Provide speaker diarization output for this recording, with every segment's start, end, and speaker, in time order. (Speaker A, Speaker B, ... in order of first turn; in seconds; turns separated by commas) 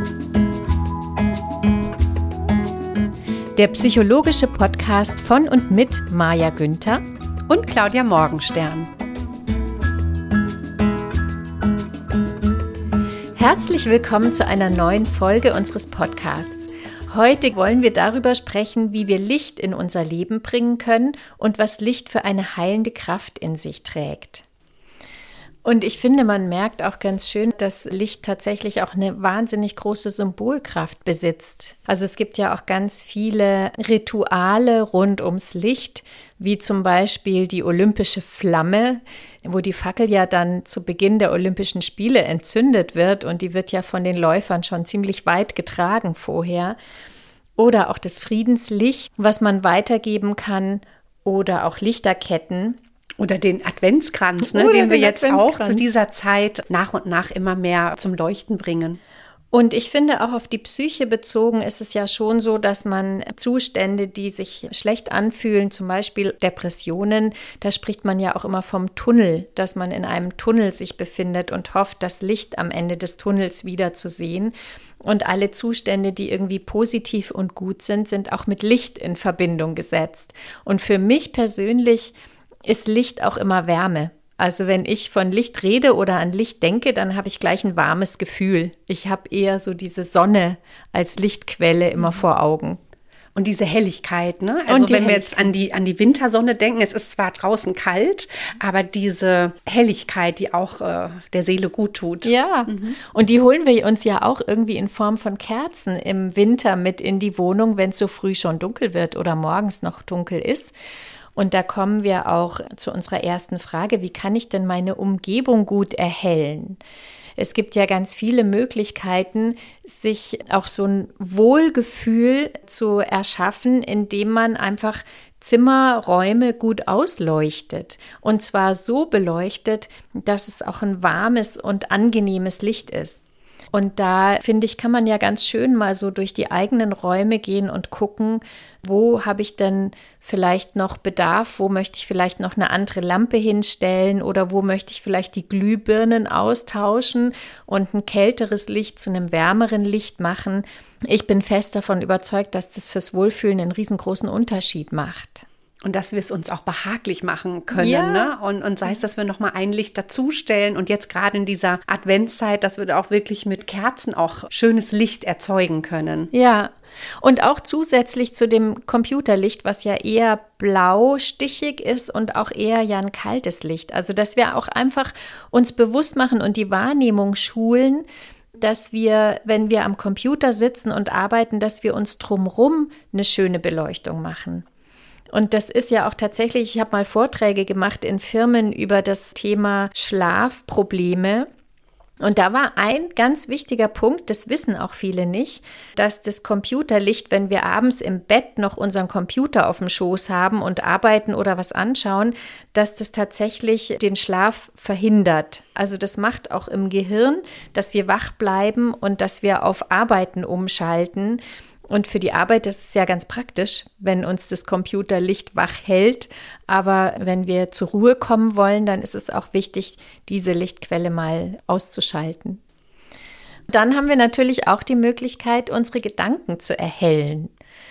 Speaker A: 3.5-7.0, Speaker B: 7.5-8.9, Speaker A: 13.4-24.4, Speaker A: 25.6-46.8, Speaker A: 47.6-52.8, Speaker B: 53.2-59.0, Speaker A: 54.4-55.9, Speaker A: 59.5-82.2, Speaker A: 82.7-92.8, Speaker B: 93.4-103.0, Speaker A: 94.7-95.5, Speaker A: 102.2-110.8, Speaker A: 111.4-116.8, Speaker A: 117.4-133.2, Speaker A: 133.7-155.4, Speaker B: 155.8-166.3, Speaker A: 157.8-158.3, Speaker A: 166.3-178.1, Speaker A: 178.6-184.7, Speaker A: 185.3-191.5, Speaker A: 192.2-222.6, Speaker A: 223.7-227.5